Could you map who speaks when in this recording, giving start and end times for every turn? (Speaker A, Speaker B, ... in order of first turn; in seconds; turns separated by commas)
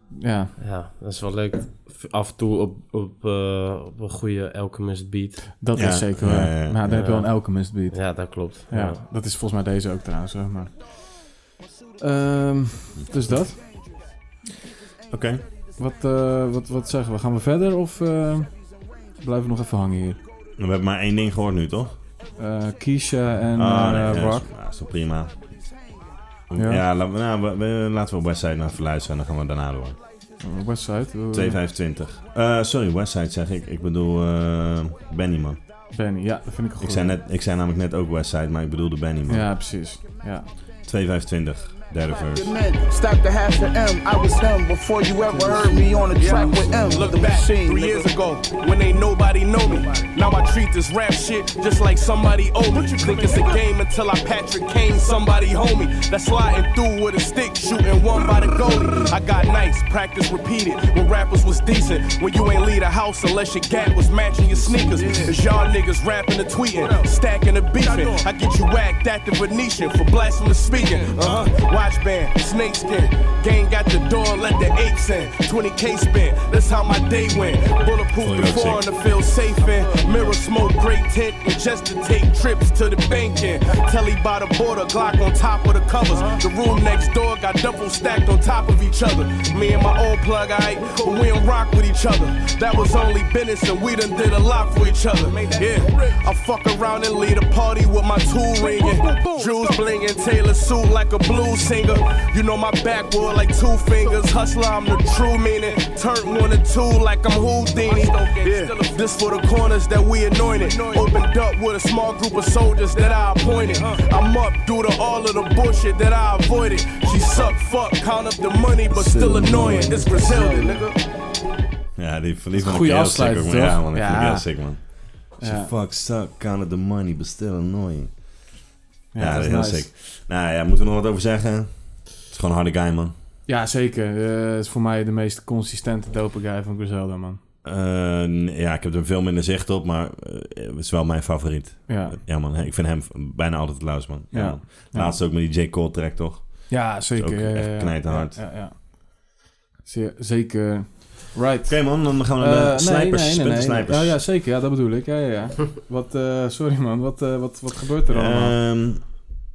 Speaker A: 0.2-0.5, Speaker B: 0.6-5.5, Speaker A: 5.6-11.4, Speaker C: 5.7-6.8, Speaker B: 6.8-9.0, Speaker A: 12.0-13.6, Speaker C: 15.1-15.4, Speaker A: 15.8-18.5, Speaker A: 19.2-20.2, Speaker C: 20.6-22.0, Speaker A: 22.4-24.5, Speaker C: 23.6-25.4, Speaker C: 26.5-30.0, Speaker A: 26.6-26.8, Speaker A: 30.4-31.6, Speaker C: 31.3-35.6, Speaker A: 35.9-37.1, Speaker C: 36.8-39.5, Speaker A: 39.3-40.5, Speaker C: 40.8-42.5, Speaker D: 42.3-48.1, Speaker E: 46.1-121.0, Speaker D: 53.0-53.3, Speaker D: 64.5-65.4, Speaker D: 67.9-68.2, Speaker C: 78.2-78.8, Speaker A: 118.9-120.9, Speaker C: 122.0-128.4, Speaker A: 122.5-125.7, Speaker A: 129.1-129.9, Speaker C: 129.2-133.1, Speaker A: 133.5-137.4, Speaker C: 137.6-148.4, Speaker A: 141.9-142.2, Speaker A: 144.3-145.2, Speaker A: 146.7-158.6, Speaker C: 151.7-154.2, Speaker C: 158.1-159.2